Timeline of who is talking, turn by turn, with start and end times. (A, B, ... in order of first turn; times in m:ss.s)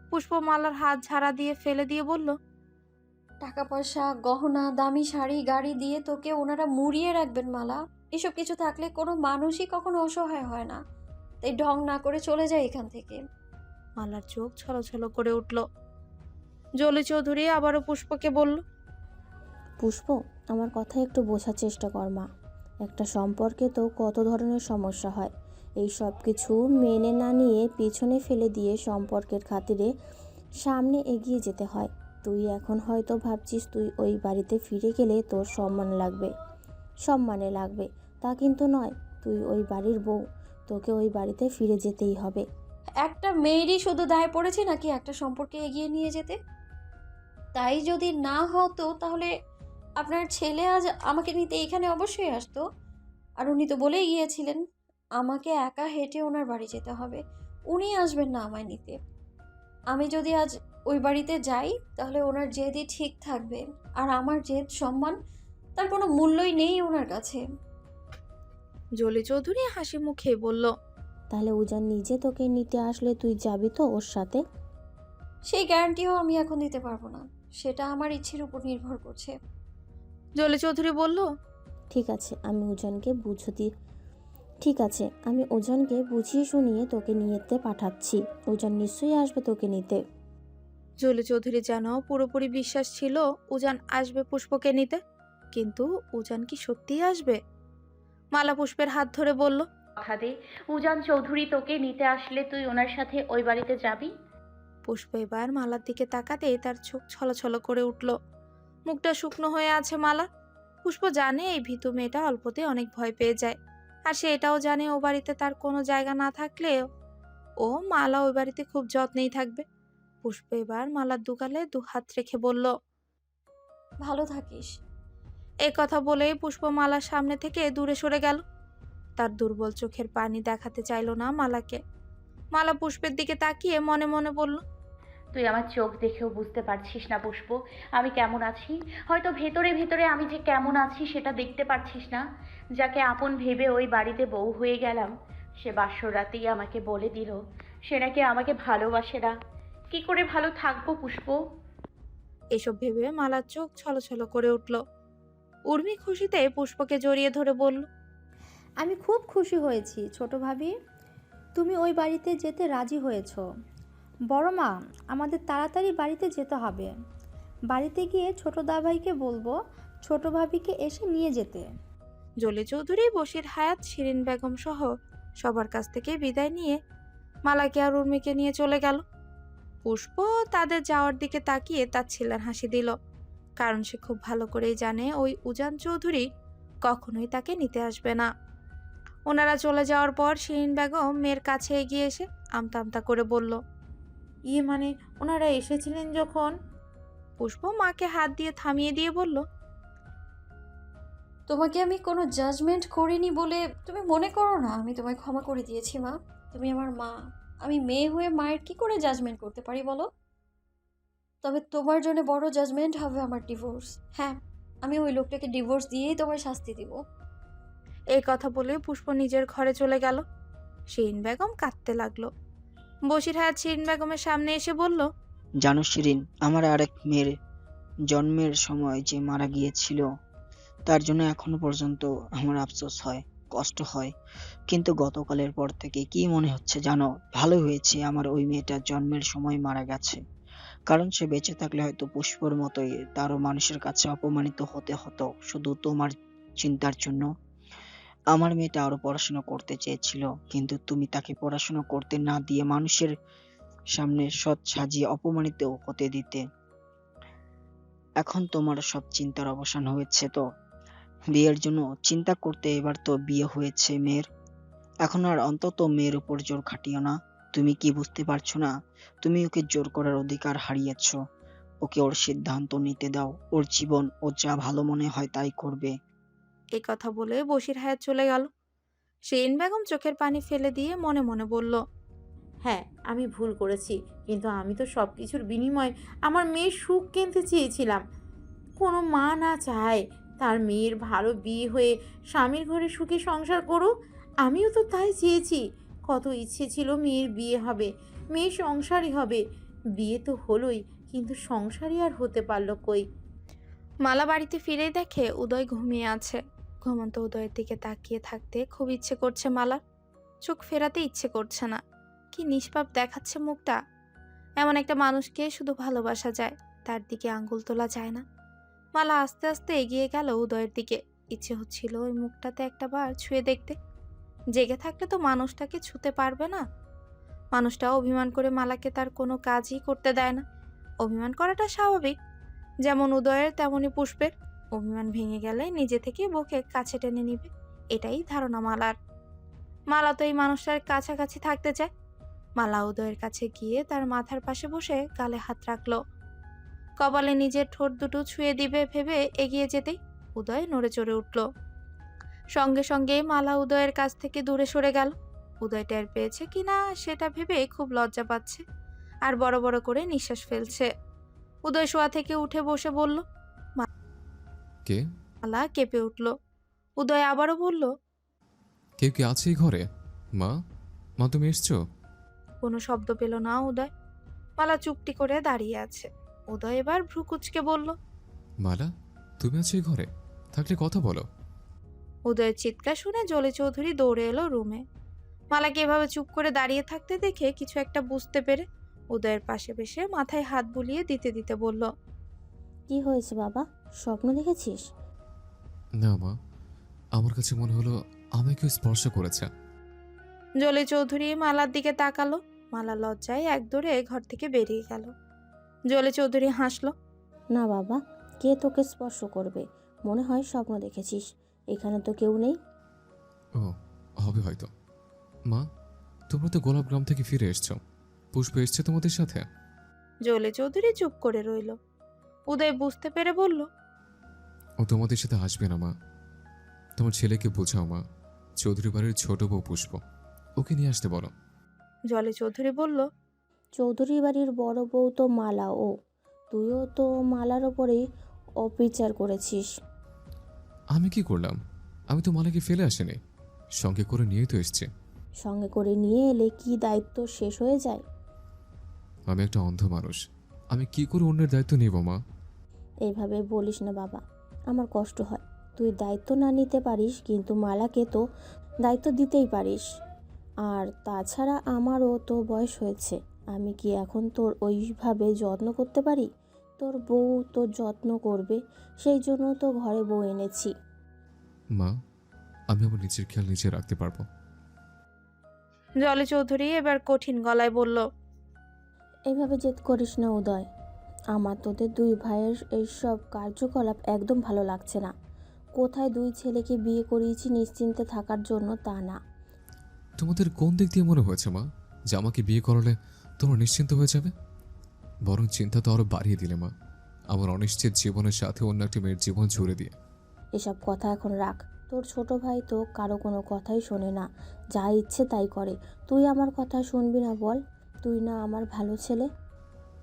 0:00.1-0:02.4 A
0:03.4-0:10.8 B
0:11.4-0:13.2 B
0:14.0-0:15.6 A
0:16.8-0:18.6 A
0:19.8-0:22.2 C
0:22.8-0:25.3 C
0:25.8-0:29.9 C
0:30.6-0:36.3 C
0:37.1-0:40.2 C
0:40.7-0:42.4 C
0:43.0-0:46.4 B
0:47.6-0:49.3 B
0:50.0-0:52.6 B
0:53.4-0:54.6 B
0:55.2-0:59.0 B
0:59.9-1:05.2 B
1:05.8-1:07.4 B
1:09.0-1:10.7 A
1:11.3-1:14.4 C
1:15.5-1:19.4 B
1:20.4-1:21.2 A
1:21.9-1:23.7 C
1:24.6-1:30.0 C
1:31.0-1:35.0 A
1:35.6-1:37.4 A
1:38.4-1:39.6 A
1:40.0-1:44.1 D
1:44.9-1:48.1 A
1:48.9-1:50.3 A
1:50.8-1:53.6 A
1:54.1-1:56.8 A
1:57.6-1:59.6 A
2:00.2-2:02.7 A
2:04.0-2:04.7 B
2:05.7-2:08.4 A
2:09.2-2:11.8 A
2:12.6-2:14.6 A
2:15.3-2:22.2 D
2:22.8-2:29.4 D
2:29.9-2:31.4 D
2:32.6-2:34.8 A
2:35.7-2:37.9 A
2:38.8-2:40.7 E
2:41.6-2:43.4 E
2:44.3-2:46.9 E
2:47.7-2:51.7 E
2:52.4-2:54.9 A
2:55.4-2:56.8 A
2:57.5-2:59.0 A
2:59.8-3:02.9 A
3:03.6-3:06.2 A
3:06.9-3:08.3 A
3:09.3-3:13.6 A
3:14.5-3:16.5 F
3:17.4-3:19.4 A
3:21.5-3:30.1 B
3:31.4-3:37.0 B
3:38.2-3:40.2 A
3:40.9-3:42.3 A
3:43.1-3:45.1 A
3:45.6-3:47.3 G
3:48.1-3:50.0 G
3:50.9-3:54.1 G
3:54.7-4:00.2 G
4:00.9-4:07.3 G
4:08.3-4:13.1 G
4:14.0-4:16.4 G
4:18.2-4:20.4 G
4:21.3-4:24.3 G
4:25.1-4:28.7 G
4:29.2-4:31.2 G
4:31.8-4:35.9 G
4:36.8-4:38.5 A
4:39.3-4:41.8 A
4:42.6-4:48.0 F
4:48.8-4:53.9 F
4:54.4-4:59.4 F
5:00.0-5:03.0 F
5:04.1-5:09.8 A
5:10.4-5:11.8 A
5:12.3-5:13.8 A
5:14.6-5:18.2 A
5:19.0-5:23.8 A
5:24.6-5:26.6 A
5:27.6-5:30.4 A
5:31.0-5:32.2 A
5:32.9-5:39.0 A
5:39.9-5:41.9 A
5:42.6-5:46.0 A
5:47.0-5:51.4 A
5:52.6-5:58.6 A
5:59.3-6:00.9 A
6:01.6-6:03.2 A
6:05.4-6:06.3 A
6:07.0-6:07.9 A
6:09.0-6:09.8 H
6:11.2-6:11.8 H
6:12.6-6:13.9 A
6:14.6-6:18.0 A
6:18.6-6:18.9 H
6:19.4-6:21.3 H
6:22.3-6:24.8 A
6:25.5-6:31.9 A
6:32.9-6:34.8 C
6:36.0-6:36.3 H
6:37.2-6:39.5 H
6:40.6-6:45.1 A
6:45.9-6:46.9 A
6:47.6-6:52.6 C
6:53.6-6:54.7 H
6:56.3-6:57.8 H
6:58.4-6:59.4 H
7:00.3-7:01.8 A
7:02.5-7:03.7 A
7:04.8-7:05.9 H
7:07.0-7:08.0 H
7:08.6-7:10.0 H
7:10.6-7:11.3 H
7:12.1-7:13.1 A
7:13.8-7:15.9 C
7:16.5-7:18.0 C
7:18.6-7:19.6 C
7:20.9-7:21.6 H
7:22.1-7:23.2 H
7:23.8-7:24.9 H
7:25.4-7:28.0 C
7:29.3-7:30.2 H
7:30.7-7:32.2 H
7:33.1-7:34.2 C
7:34.7-7:38.2 C
7:38.9-7:39.8 C
7:40.7-7:46.3 C
7:46.8-7:50.7 C
7:52.7-7:54.2 H
7:56.0-7:58.0 A
7:59.3-8:00.7 C
8:01.4-8:05.1 C
8:05.8-8:09.2 C
8:10.2-8:14.3 H
8:15.3-8:16.7 H
8:17.3-8:19.9 H
8:20.6-8:24.3 C
8:24.8-8:29.3 C